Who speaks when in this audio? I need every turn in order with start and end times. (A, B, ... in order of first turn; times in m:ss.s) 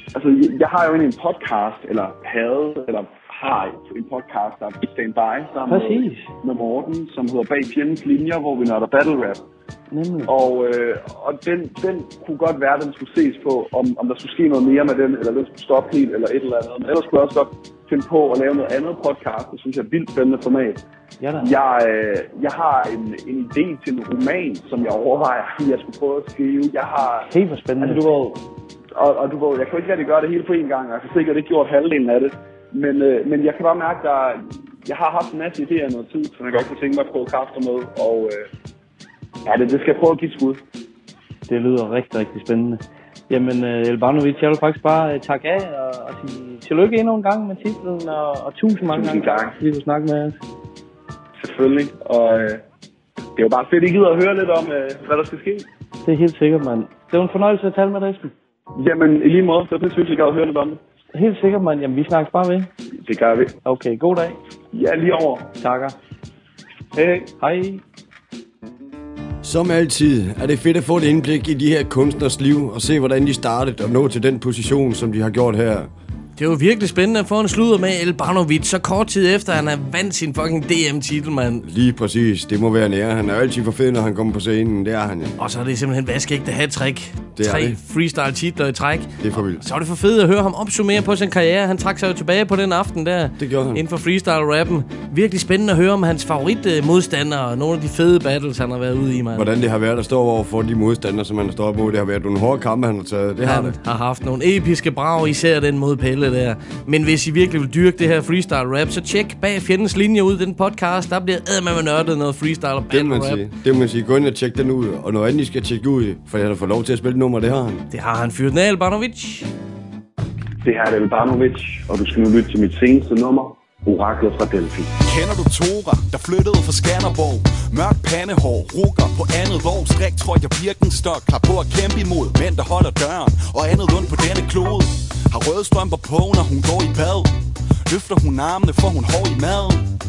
0:00.1-0:09.4 A
0:05.7-0:06.3 B
0:09.9-0:10.3 B
0:10.3-0:20.8 A
0:21.2-0:21.5 B
0:21.4-0:27.3 A
0:27.3-0:28.1 B
0:27.8-0:38.5 A
0:39.5-0:40.6 A
0:41.5-0:50.4 B
0:48.9-0:49.6 A
0:51.4-0:52.6 A
0:53.4-0:55.7 A
0:56.0-0:58.3 B
0:58.8-1:00.8 A
1:01.1-1:02.7 B
1:03.0-1:03.5 A
1:03.6-1:04.4 B
1:04.7-1:05.5 A
1:05.6-1:06.0 B
1:07.0-1:07.3 A
1:07.4-1:07.8 B
1:09.4-1:15.9 C
1:16.4-1:21.6 D
1:21.6-1:25.3 C
1:25.4-1:39.5 D
1:27.4-1:27.8 C
1:29.2-1:29.6 C
1:33.4-1:33.8 C
1:39.3-1:43.8 C
1:43.4-1:53.5 D
1:52.9-1:57.8 C
1:57.9-1:59.5 D
2:00.6-2:04.9 A
2:05.1-2:17.3 E
2:17.9-2:19.8 E